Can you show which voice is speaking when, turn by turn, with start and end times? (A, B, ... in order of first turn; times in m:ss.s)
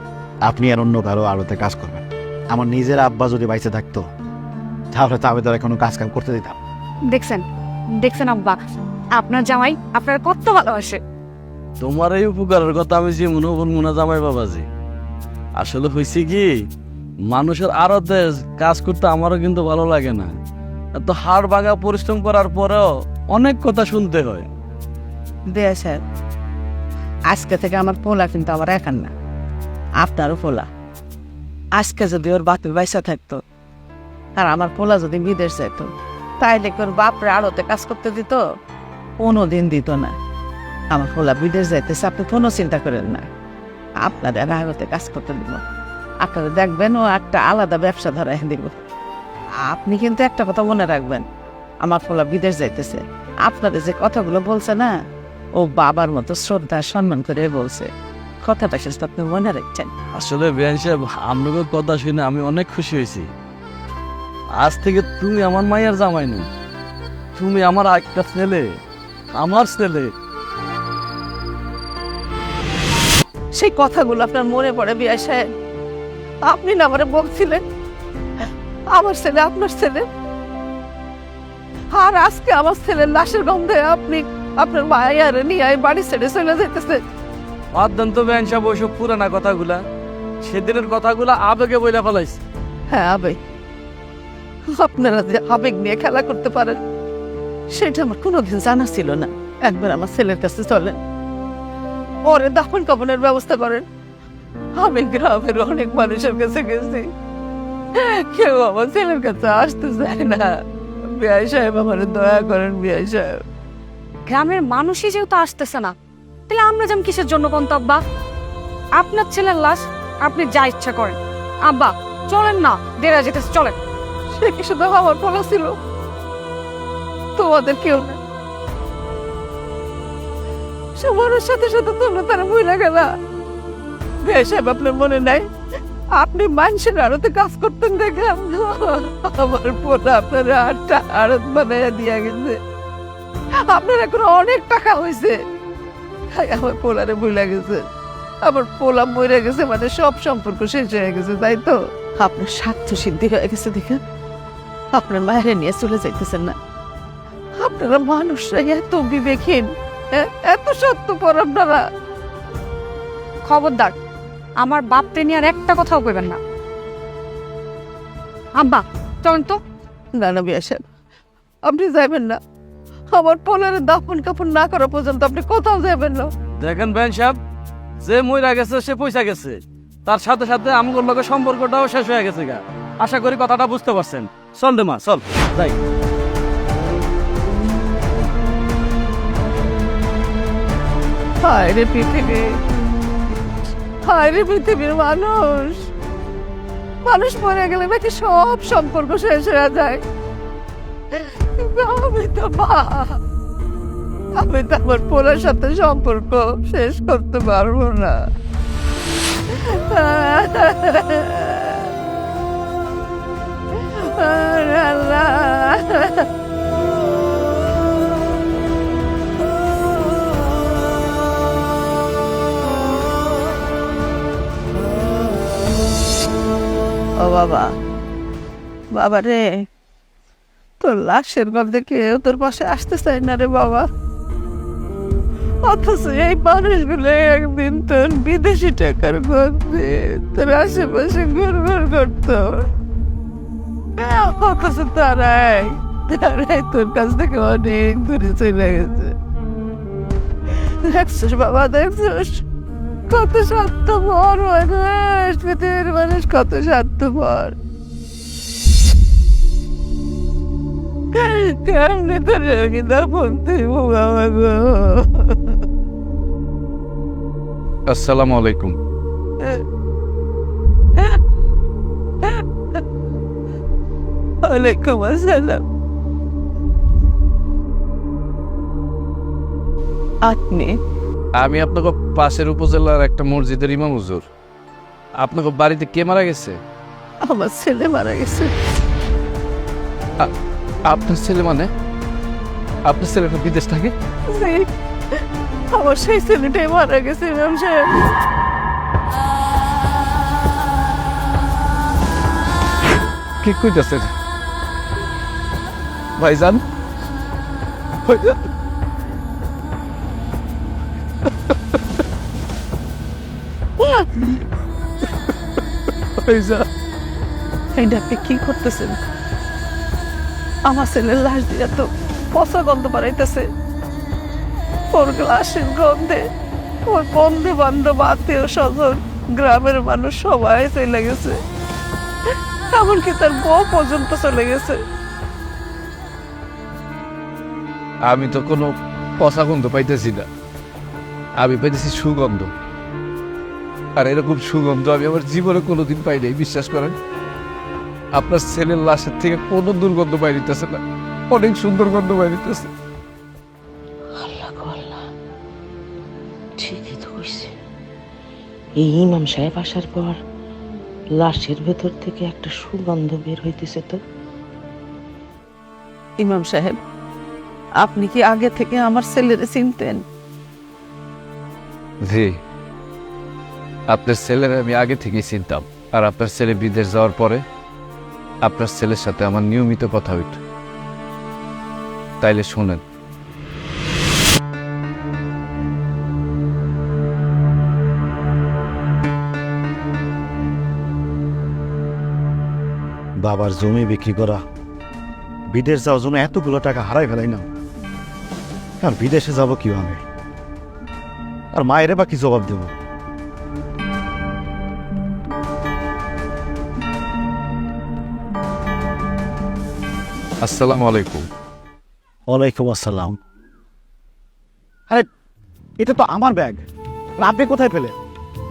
0:00.5-0:04.0 A
0:04.9-0:06.6 A
0:07.1-0:07.4 B
0:08.0-0:08.6 B
0:09.2-0:11.0 B
0:11.8-0:14.6 C
0:15.6-0:16.5 C
0:17.3-0:20.3 C
0:21.0-0:24.5 C
0:25.5-0:26.0 D
0:27.3-0:29.1 D
0:30.0-0:30.7 D
0:31.7-0:33.4 D
0:34.4-0:38.4 D
0:39.2-0:40.1 D
0:40.9-0:43.2 D
0:44.0-0:45.6 D
0:46.2-0:48.8 D
0:49.6-0:51.3 D
0:51.8-0:54.9 D
0:55.6-0:57.9 D
0:58.4-0:59.9 D
1:00.1-1:03.3 C
1:04.6-1:06.5 C
1:07.4-1:08.6 C
1:09.3-1:10.1 C
1:13.6-1:15.4 D
1:16.5-1:17.6 D
1:18.9-1:20.0 D
1:21.9-1:27.0 D
1:27.7-1:29.8 C
1:30.4-1:32.4 C
1:32.9-1:33.4 D
1:34.7-1:36.8 D
1:37.7-1:41.0 D
1:42.2-1:43.8 D
1:44.8-1:47.1 D
1:47.9-1:50.5 D
1:51.2-1:53.3 D
1:54.3-1:55.9 B
1:56.5-1:58.0 B
1:59.0-2:03.8 B
2:04.3-2:05.7 D
2:07.4-2:08.2 D
2:11.0-2:13.0 D
2:14.2-2:15.4 D
2:16.2-2:22.6 D
2:23.7-2:25.4 D
2:26.3-2:27.8 D
2:28.4-2:34.0 D
2:34.9-2:36.6 D
2:37.6-2:41.8 D
2:43.4-2:43.9 B
2:44.6-2:46.4 B
2:48.6-2:49.6 B
2:50.1-2:50.8 D
2:51.6-2:52.4 D
2:53.1-2:56.3 D
2:56.6-2:57.4 C
2:58.0-3:05.8 C
3:11.4-3:12.4 D
3:14.0-3:15.8 D
3:17.0-3:20.0 D
3:21.1-3:23.2 D
3:24.4-3:28.1 D
3:29.5-3:31.9 D
3:33.7-3:36.3 D
3:47.2-3:47.7 D
3:48.9-3:49.6 D
3:50.8-3:53.8 D
3:55.6-4:02.7 D
4:04.0-4:09.1 D
4:10.8-4:12.4 D
4:13.1-4:17.5 D
4:21.1-4:25.6 D
4:27.9-4:28.8 E
4:34.4-4:35.6 D
4:40.2-4:40.8 D
4:41.4-4:44.2 E
4:45.2-4:46.6 E
4:47.2-4:48.5 D
4:50.8-4:51.7 E
4:52.8-4:53.9 E
4:54.3-4:54.7 D
4:55.7-4:57.9 D
5:03.4-5:04.1 E
5:06.2-5:06.6 E
5:08.0-5:08.4 E
5:16.2-5:16.6 E
5:17.7-5:19.0 D
5:20.6-5:23.4 D
5:24.9-5:26.2 D
5:26.9-5:31.4 D
5:32.7-5:34.8 D
5:38.0-5:40.3 E
5:41.4-5:42.5 E
5:44.0-5:46.9 E
5:48.1-5:52.7 E
5:54.2-5:55.0 F
5:56.6-5:57.5 F
5:58.8-6:00.2 F
6:01.1-6:04.0 F
6:06.2-6:06.8 D
6:07.8-6:10.0 D
6:12.0-6:12.4 E
6:13.9-6:17.4 E
6:18.4-6:20.4 E
6:22.2-6:22.8 E
6:33.2-6:34.4 A
6:35.5-6:37.4 A
6:38.8-6:40.0 A
6:41.5-6:42.7 A
6:50.4-6:51.3 E
6:52.3-6:53.2 A
6:55.8-6:56.6 A
6:57.2-6:57.9 A